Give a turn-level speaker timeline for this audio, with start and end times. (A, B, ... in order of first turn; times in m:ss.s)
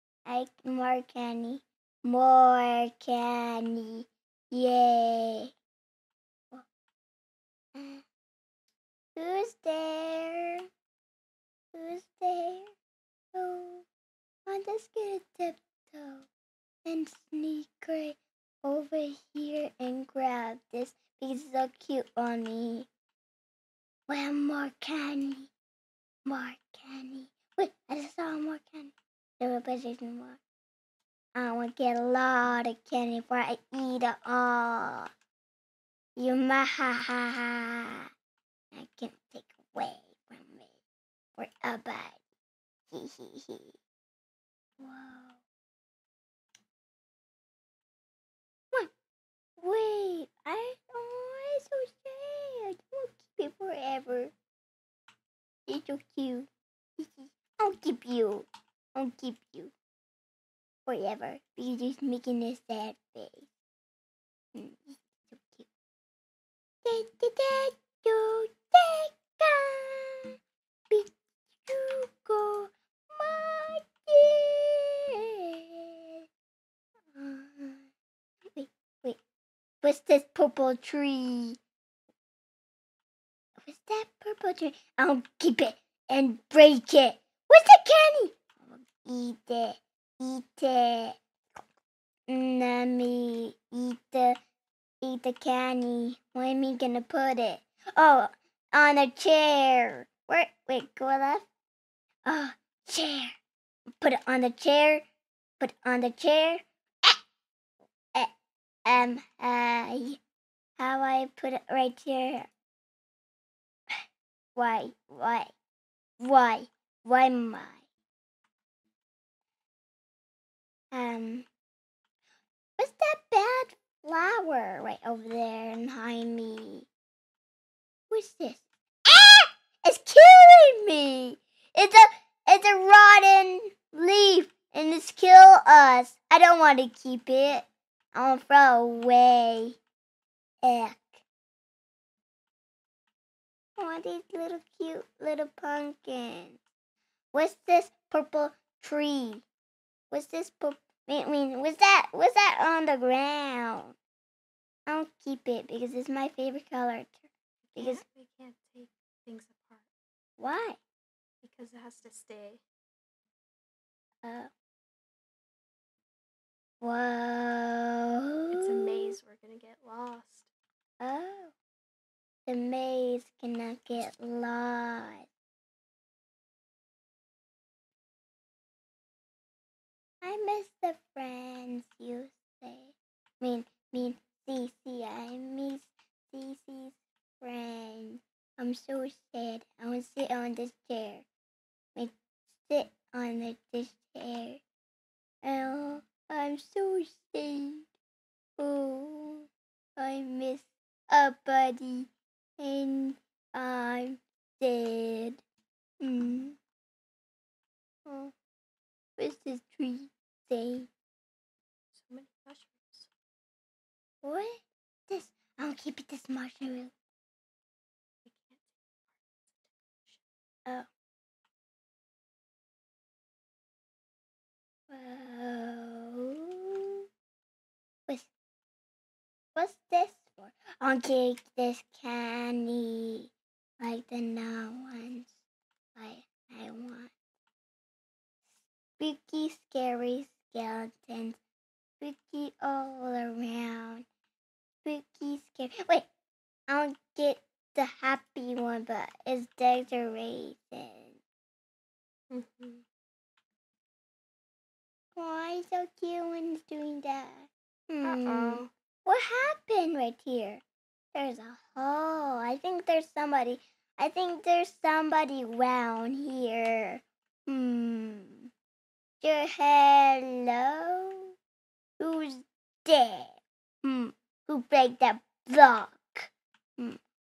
0:00.2-0:05.5 A
0:07.8-0:08.0 A
0:09.2-0:10.6 A
0:11.7-0:12.7 A
0:13.3-0:13.9 A
0:14.5-0:16.3 A
0:16.8-0:22.9 A
0:24.1-0:25.5 A
0:26.3-0:30.4 A
0:31.4-0:35.1 A
0:36.2-0:38.1 A
0:38.7-0:40.8 A
0:41.4-0:42.2 A
0:42.9-0:43.8 A
0:44.8-0:45.4 A
0:49.6-0:54.3 A
0:55.7-0:59.7 A
1:00.9-1:03.5 A
1:04.6-1:05.7 A
1:06.8-1:10.3 A
1:11.6-1:15.0 A
1:15.8-1:16.2 A
1:17.1-1:17.9 A
1:18.6-1:19.2 A
1:19.8-1:21.6 A
1:23.6-1:31.2 A
1:32.3-1:34.4 A
1:35.0-1:41.5 A
1:42.2-1:43.4 A
1:44.0-1:45.0 A
1:45.6-1:47.2 A
1:48.9-1:50.2 A
1:50.8-1:52.5 A
1:54.6-1:55.5 A
1:56.2-1:57.8 A
2:00.9-2:01.5 A
2:02.8-2:06.9 A
2:08.1-2:19.8 A
2:20.6-2:21.2 A
2:23.8-2:26.6 A
2:27.3-2:29.4 A
2:30.1-2:34.0 A
2:34.9-2:38.0 A
2:37.7-2:39.9 B
2:40.4-2:40.8 A
2:41.4-2:42.6 B
2:44.2-2:44.5 A
2:46.8-2:49.2 A
2:48.5-2:50.5 B
2:51.0-2:51.5 A
2:52.5-2:55.3 A
3:00.2-3:11.3 A
3:12.0-3:14.6 A
3:15.4-3:17.9 A
3:18.6-3:25.4 A
3:26.0-3:26.6 A
3:28.1-3:28.3 A
3:29.2-3:30.9 A
3:31.9-3:33.1 B
3:34.2-3:36.9 A
3:38.2-3:40.2 B
3:44.9-3:46.4 A
3:49.6-3:55.4 A
3:56.0-3:57.1 A
3:59.0-4:01.4 A
4:02.0-4:04.1 A
4:04.8-4:06.1 A
4:06.7-4:11.2 A
4:12.3-4:12.8 B
4:15.2-4:20.6 A
4:18.0-4:18.7 B
4:21.1-4:28.5 A
4:29.2-4:31.3 A
4:32.0-4:37.0 A